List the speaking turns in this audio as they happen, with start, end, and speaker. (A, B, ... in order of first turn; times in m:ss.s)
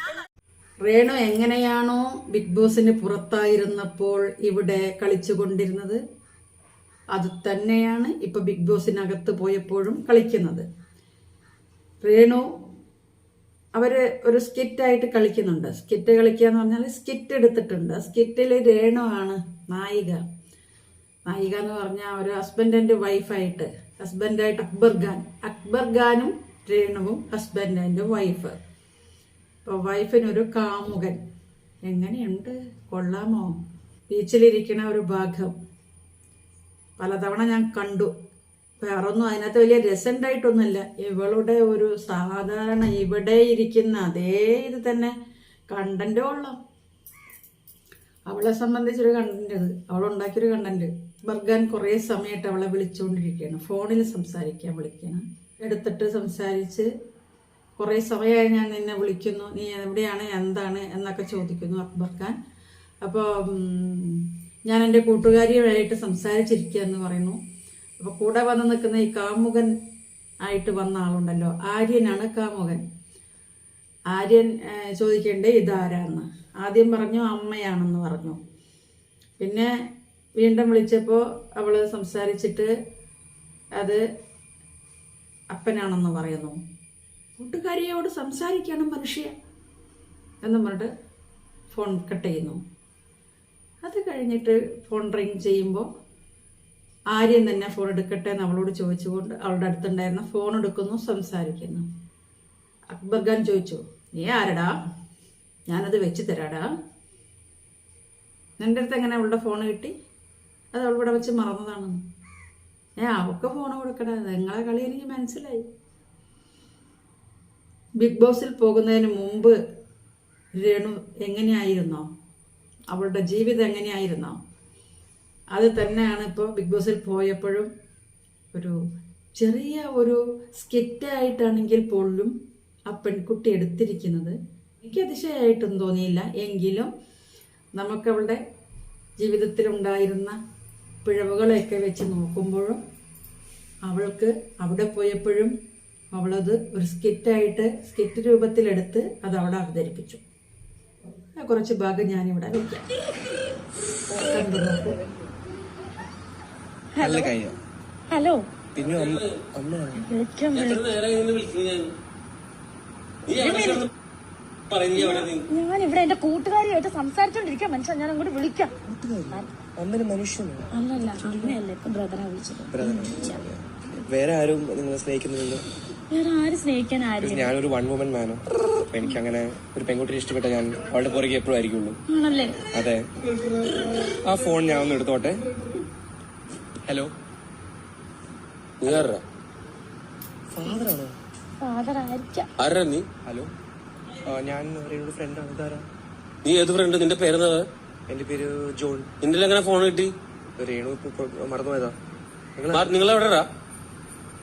0:00.8-0:06.0 A
0:07.1-0:10.6 A
0:12.0-0:12.4 A
0:13.7-0:20.2 A
0:21.2-0:28.6 A
0:29.6-0:31.2 A
0:31.8-0:33.5 A
0:34.1-0:35.5 A
0:37.0-0:38.1 A
0:38.8-0:45.1 A
0:45.7-0:46.6 A
0:48.3-0:56.9 A
0:57.8-1:02.4 A
1:03.0-1:07.4 A
1:08.0-1:09.7 A
1:10.4-1:12.8 A
1:14.1-1:18.4 A
1:19.4-1:19.7 A
1:20.4-1:22.7 A
1:25.5-1:26.6 A
1:27.4-1:29.3 A
1:30.4-1:30.9 A
1:31.7-1:32.6 A
1:33.8-1:35.8 A
1:37.1-1:41.8 A
1:42.9-1:44.7 A
1:45.7-1:46.7 A
1:48.6-1:49.9 A
1:50.7-1:52.0 A
1:53.0-1:55.6 A
1:58.0-1:59.6 A
2:00.6-2:02.0 A
2:02.9-2:04.4 A
2:05.5-2:07.7 A
2:09.4-2:12.3 A
2:12.9-2:16.9 A
2:17.8-2:18.4 A
2:19.2-2:20.4 A
2:21.0-2:22.8 A
2:23.8-2:25.5 A
2:26.1-2:30.2 A
2:31.3-2:32.9 A
2:34.1-2:35.0 A
2:36.9-2:37.3 B
2:37.0-2:37.6 C
2:38.1-2:38.4 B
2:38.7-2:40.1 C
2:38.8-2:39.4 D
2:39.9-2:41.0 B
2:40.5-2:41.9 D
2:43.3-2:43.9 B
2:43.3-2:43.9 D
2:44.7-2:45.4 D
2:44.9-2:48.7 B
2:48.8-2:50.7 C
2:50.7-2:53.4 B
2:52.7-2:55.6 C
2:56.1-2:57.5 B
2:57.2-3:02.0 C
3:02.1-3:02.6 B
3:02.7-3:03.1 C
3:04.2-3:05.4 C
3:06.8-3:07.1 C
3:08.8-3:09.2 D
3:10.5-3:11.2 C
3:11.6-3:12.5 B
3:12.6-3:13.0 D
3:13.2-3:13.5 C
3:14.2-3:15.9 C
3:16.4-3:17.6 D
3:18.1-3:19.1 C
3:19.2-3:20.1 D
3:20.6-3:22.0 C
3:22.6-3:22.9 C
3:22.7-3:23.4 D